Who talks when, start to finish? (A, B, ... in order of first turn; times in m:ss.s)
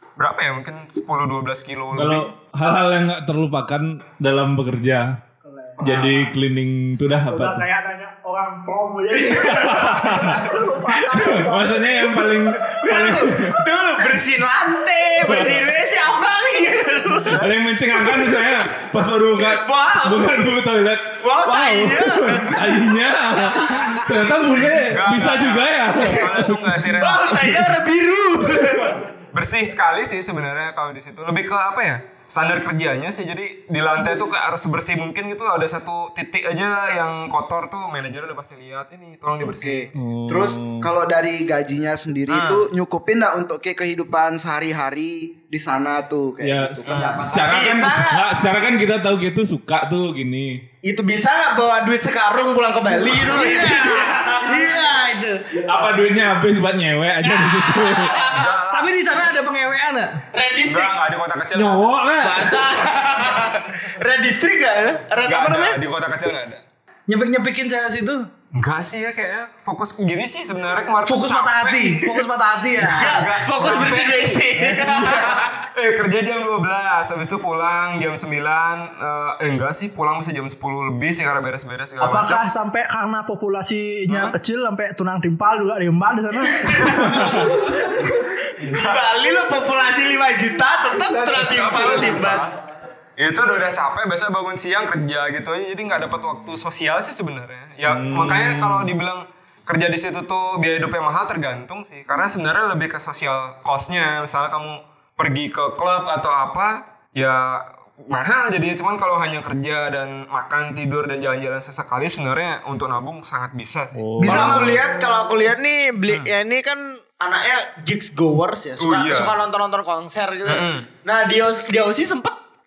0:00.2-0:02.3 A
0:01.9-0:05.2 B
0:05.4-0:06.3 C
0:05.8-0:07.6 B
0:07.3-0:12.2 C
0:09.4-0:10.4 B
0:11.1-0:13.6 B
0:12.6-0:18.2 D
0:15.2-0:15.7 B
0:17.2-0:26.8 B
0:19.4-0:20.4 D
0:21.2-0:23.0 D
0:23.5-0:23.8 D
0:24.7-0:27.8 A
0:26.9-0:29.1 D
0:29.3-0:39.9 A
0:39.4-0:47.9 E
0:39.9-0:40.9 B
0:42.3-0:42.7 A
0:46.4-0:50.6 B
0:46.8-0:47.2 A
0:47.3-0:48.4 D
0:50.8-0:54.8 D
0:53.2-0:55.5 F
0:55.7-0:58.2 B
0:57.5-1:00.1 F
0:58.1-0:58.5 D
0:58.2-0:59.2 A
1:00.3-1:00.9 D
1:00.6-1:01.9 A
1:01.6-1:02.6 F
1:02.2-1:05.8 D
1:05.2-1:06.6 A
1:07.1-1:08.3 F
1:08.5-1:12.2 A
1:11.0-1:13.2 F
1:12.8-1:22.4 A
1:12.8-1:15.6 D
1:22.0-1:27.3 C
1:24.1-1:24.3 A
1:26.7-1:27.7 A
1:28.6-1:29.0 A
1:28.6-1:32.5 D
1:31.1-1:32.5 A
1:33.2-1:54.8 A
1:37.8-1:38.9 B
1:53.9-1:54.8 B
1:54.2-2:02.4 D
1:56.0-1:56.3 A
1:58.8-1:59.3 A
2:00.4-2:00.9 A